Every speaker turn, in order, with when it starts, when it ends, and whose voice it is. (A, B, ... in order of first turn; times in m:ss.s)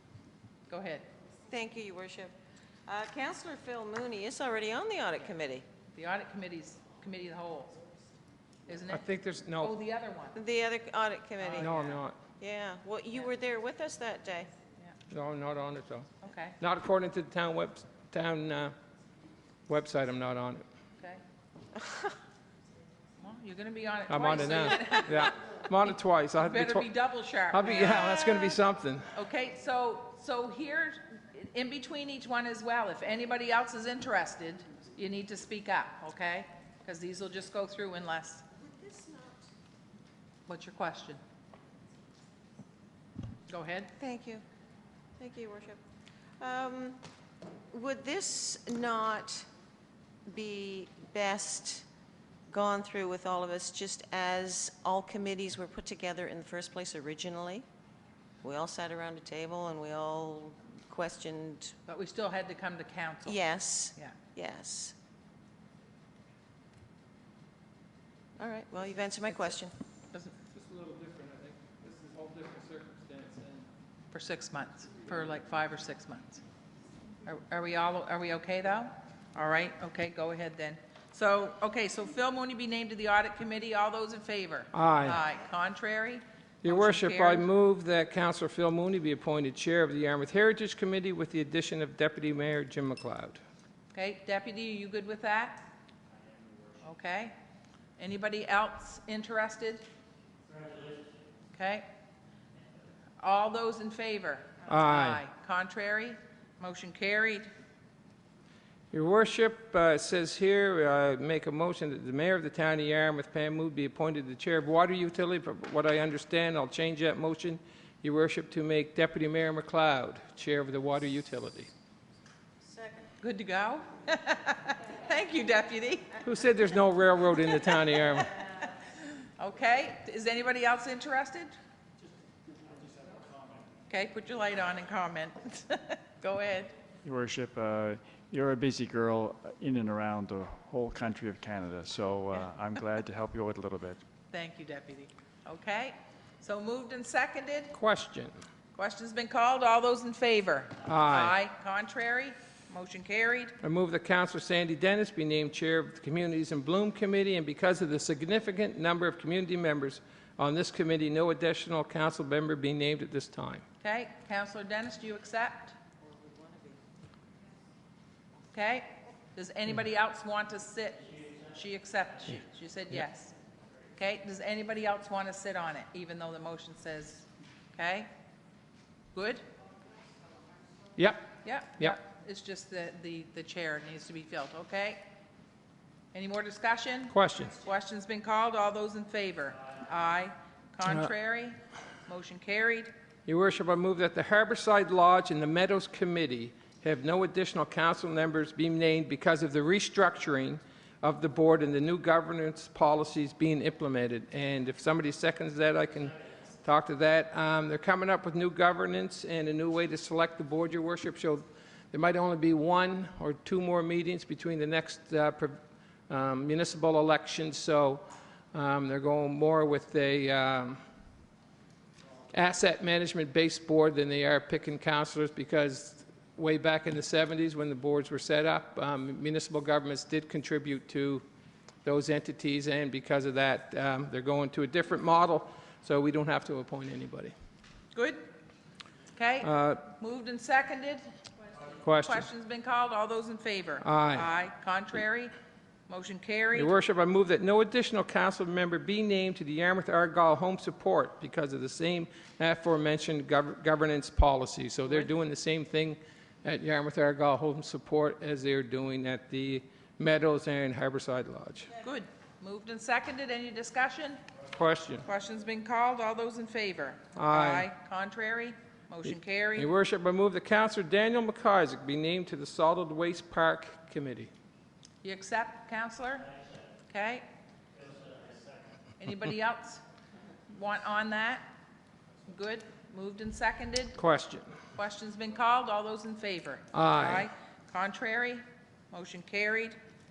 0:00.7-0:01.1 A
0:01.5-0:02.4 B
0:02.9-0:05.6 B
0:05.9-0:07.8 A
0:08.7-0:09.1 A
0:08.9-0:09.7 C
0:09.6-0:10.4 A
0:10.4-0:11.7 B
0:11.4-0:12.0 A
0:11.6-0:12.2 C
0:12.4-0:14.5 B
0:15.1-0:16.1 C
0:16.2-0:16.6 A
0:16.6-0:18.8 C
0:19.7-0:20.6 C
0:21.8-0:22.1 B
0:23.2-0:25.4 A
0:24.1-0:26.9 C
0:26.4-0:28.6 A
0:27.5-0:29.1 C
0:29.1-0:38.5 A
0:38.8-0:39.3 B
0:40.5-0:41.2 A
0:43.5-0:43.9 A
0:44.0-0:44.4 B
0:45.2-0:45.8 B
0:46.4-0:47.0 B
0:47.7-0:49.5 B
0:50.3-0:51.9 B
0:52.5-0:57.6 B
0:58.4-1:01.8 B
1:01.9-1:03.4 A
1:03.3-1:05.0 B
1:08.4-1:09.7 B
1:10.5-1:13.7 C
1:14.1-1:16.4 A
1:17.2-1:27.5 A
1:24.7-1:25.2 C
1:26.6-1:33.4 C
1:33.9-1:35.7 A
1:36.8-1:37.4 A
1:38.0-1:39.9 A
1:41.5-1:41.9 A
1:43.2-1:47.5 A
1:44.7-1:45.2 C
1:48.9-2:01.7 C
2:03.2-2:06.2 A
2:06.2-2:08.3 C
2:07.5-2:11.5 A
2:13.9-2:16.8 A
2:17.0-2:24.0 D
2:24.3-2:27.8 A
2:27.7-2:28.4 C
2:28.7-2:33.6 A
2:30.8-2:31.4 C
2:33.6-2:43.6 C
2:43.8-2:45.8 A
2:46.0-2:46.8 B
2:48.5-2:53.4 A
2:54.0-2:58.1 A
2:59.1-2:59.4 A
3:01.0-3:01.3 C
3:01.4-3:05.0 A
3:06.1-3:12.9 A
3:07.1-3:07.6 C
3:13.3-3:35.6 C
3:36.1-3:40.8 C
3:42.3-3:51.2 C
3:51.8-3:57.3 C
3:57.9-3:58.2 A
3:59.2-4:01.1 A
3:59.4-3:59.8 C
4:01.8-4:02.3 C
4:02.0-4:05.3 A
4:03.8-4:04.2 C
4:05.9-4:06.7 A
4:06.6-4:21.7 C
4:21.8-4:24.2 A
4:24.5-4:25.0 C
4:25.0-4:29.7 A
4:27.2-4:27.7 C
4:29.6-4:34.3 C
4:35.0-4:36.3 A
4:36.9-4:37.2 A
4:39.0-4:39.8 A
4:40.5-4:41.5 A
4:42.3-4:44.0 A
4:44.0-4:44.5 C
4:44.8-4:49.8 A
4:46.7-4:47.3 C